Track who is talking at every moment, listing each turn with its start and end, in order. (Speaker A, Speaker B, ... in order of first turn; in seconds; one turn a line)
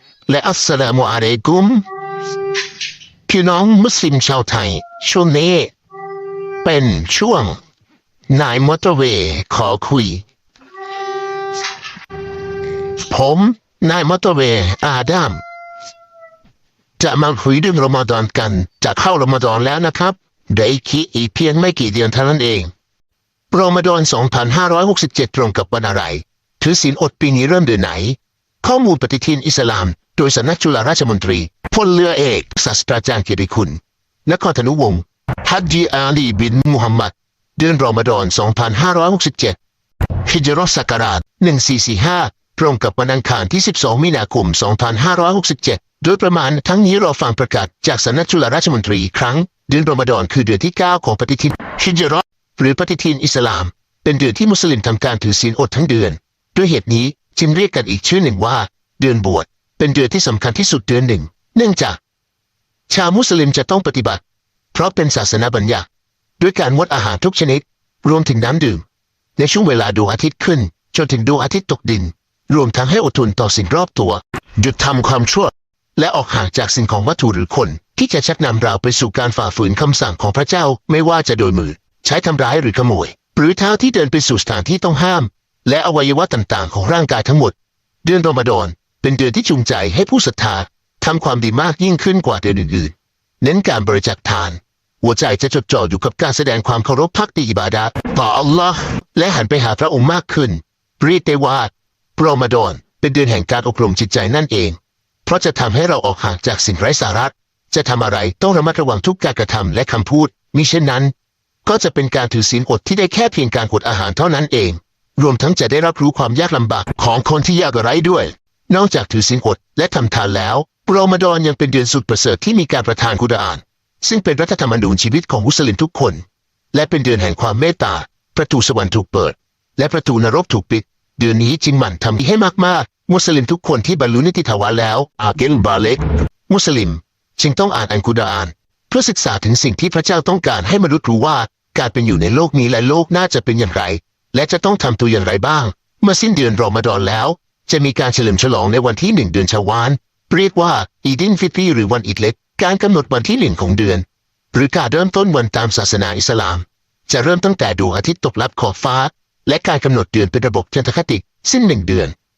Speaker A: 0.3-1.9
Speaker A: 3.3-5.7
Speaker A: 6.6-7.6
Speaker A: 8.3-10.2
Speaker A: 13.0-15.4
Speaker A: 17.0-22.7
Speaker A: 23.5-39.6
Speaker A: 40.2-62.0
Speaker A: 62.9-64.2
Speaker A: 64.7-65.9
Speaker A: 66.4-68.8
Speaker A: 69.4-111.1
Speaker A: 111.7-162.1